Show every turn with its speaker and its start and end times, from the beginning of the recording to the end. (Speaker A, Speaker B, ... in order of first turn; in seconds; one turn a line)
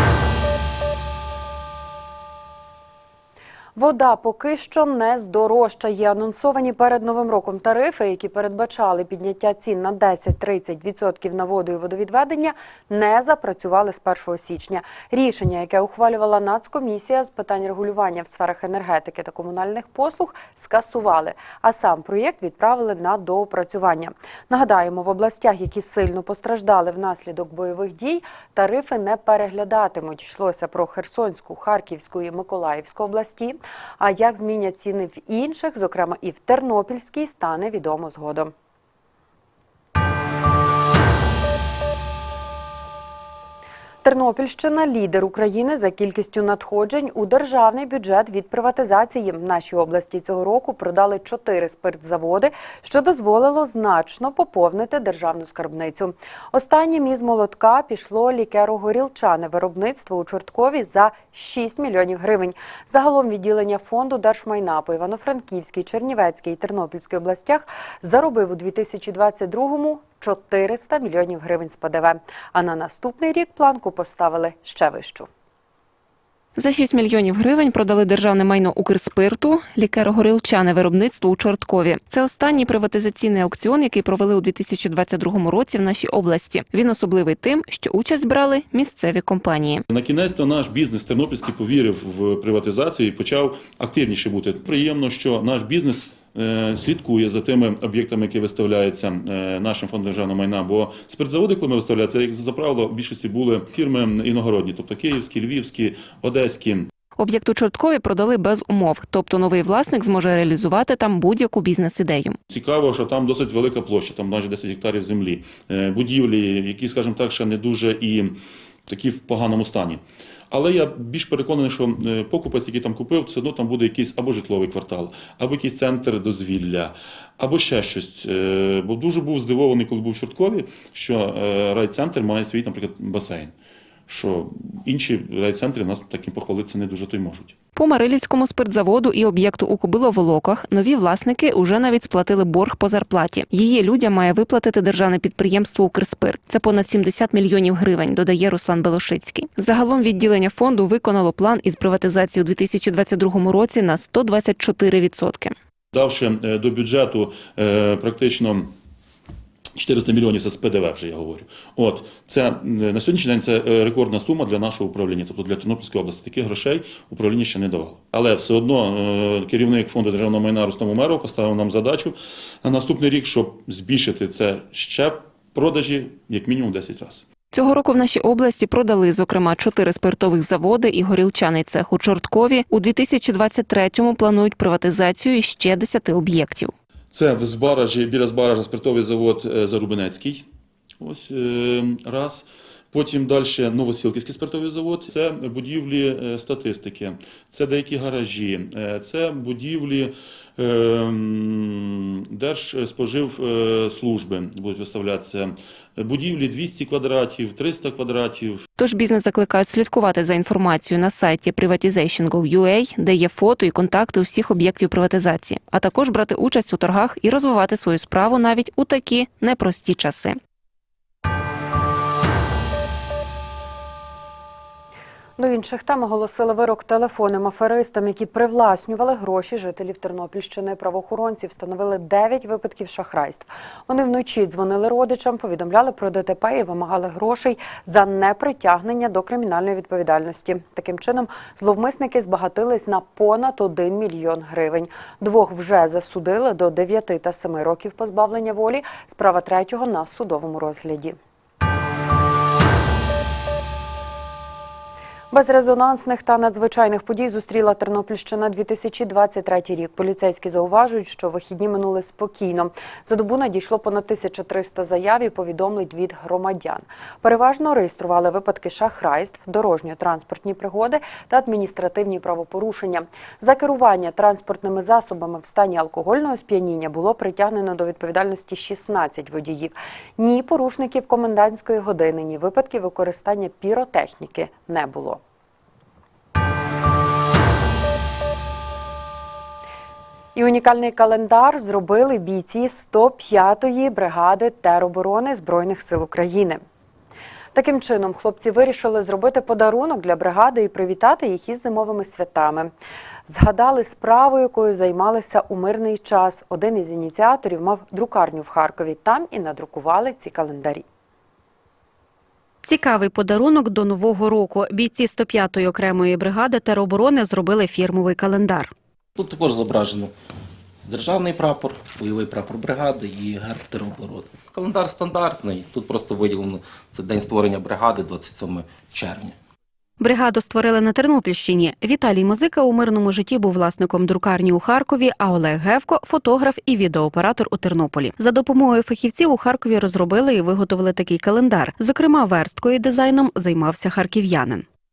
Speaker A: 3.8-38.5
Speaker A: 44.0-75.3
Speaker B: 76.6-89.8
Speaker C: 89.9-106.9
Speaker B: 107.2-112.4
Speaker C: 112.5-133.5
Speaker C: 134.1-137.6
Speaker B: 137.8-155.5
Speaker C: 155.9-158.7
Speaker C: 159.8-177.3
Speaker B: 177.5-186.7
Speaker C: 187.1-190.4
Speaker C: 191.0-208.6
Speaker B: 208.8-220.4
Speaker A: 225.4-251.2
Speaker A: 255.3-285.2
Speaker A: 290.4-296.6
Speaker A: 297.5-302.7
Speaker A: 303.3-310.8
Speaker D: 312.6-318.7
Speaker E: 319.2-320.1
Speaker E: 320.9-329.4
Speaker D: 330.0-344.6